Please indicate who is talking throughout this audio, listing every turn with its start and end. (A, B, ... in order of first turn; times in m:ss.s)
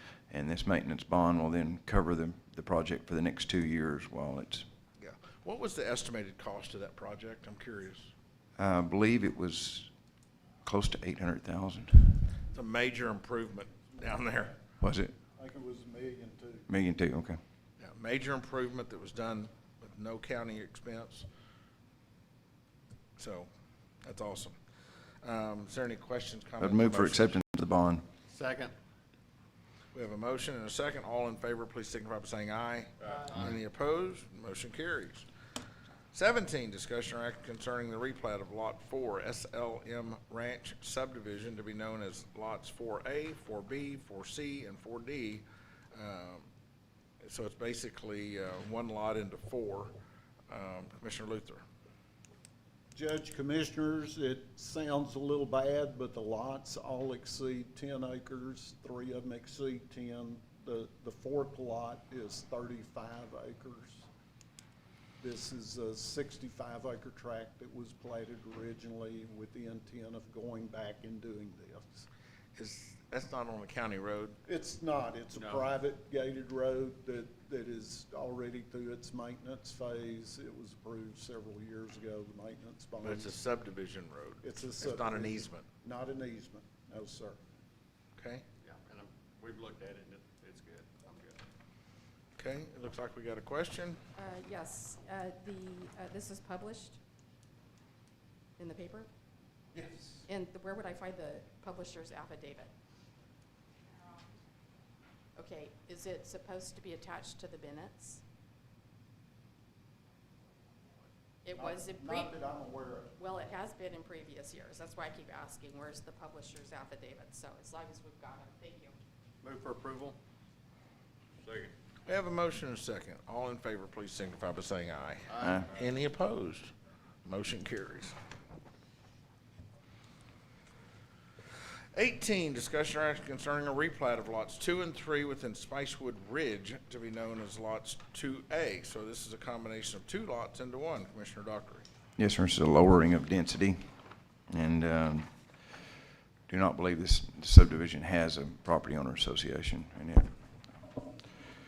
0:00.3-0:04.6 A
0:05.0-0:08.1 B
0:08.6-0:09.9 A
0:10.6-0:12.3 A
0:12.5-0:14.6 B
0:14.8-0:15.1 A
0:15.4-0:16.7 C
0:16.7-0:17.4 A
0:17.8-0:21.3 B
0:23.2-0:23.5 B
0:24.0-0:24.6 B
0:25.2-0:27.4 B
0:26.6-0:28.0 A
0:28.3-0:28.7 D
0:29.9-0:35.2 B
0:33.2-0:33.6 D
0:36.1-0:46.5 B
0:47.2-0:49.9 B
0:50.5-0:51.6 B
0:52.9-1:04.1 C
1:05.2-1:12.1 C
1:12.6-1:14.4 B
1:14.4-1:23.4 C
1:15.3-1:15.7 D
1:23.0-1:25.6 B
1:24.4-1:27.5 C
1:28.2-1:28.4 B
1:28.6-1:31.4 D
1:32.4-1:34.0 B
1:34.2-1:37.0 E
1:38.6-1:39.1 E
1:39.7-1:40.0 B
1:40.2-1:42.7 E
1:45.4-1:48.2 E
1:51.4-1:52.3 E
1:51.5-1:53.1 C
1:53.2-1:58.9 E
1:59.4-2:00.2 D
2:02.0-2:06.7 B
2:05.3-2:05.7 D
2:07.2-2:08.1 B
2:11.9-2:21.8 B
2:22.2-2:23.8 A
2:24.5-2:25.3 A
2:26.5-2:30.3 A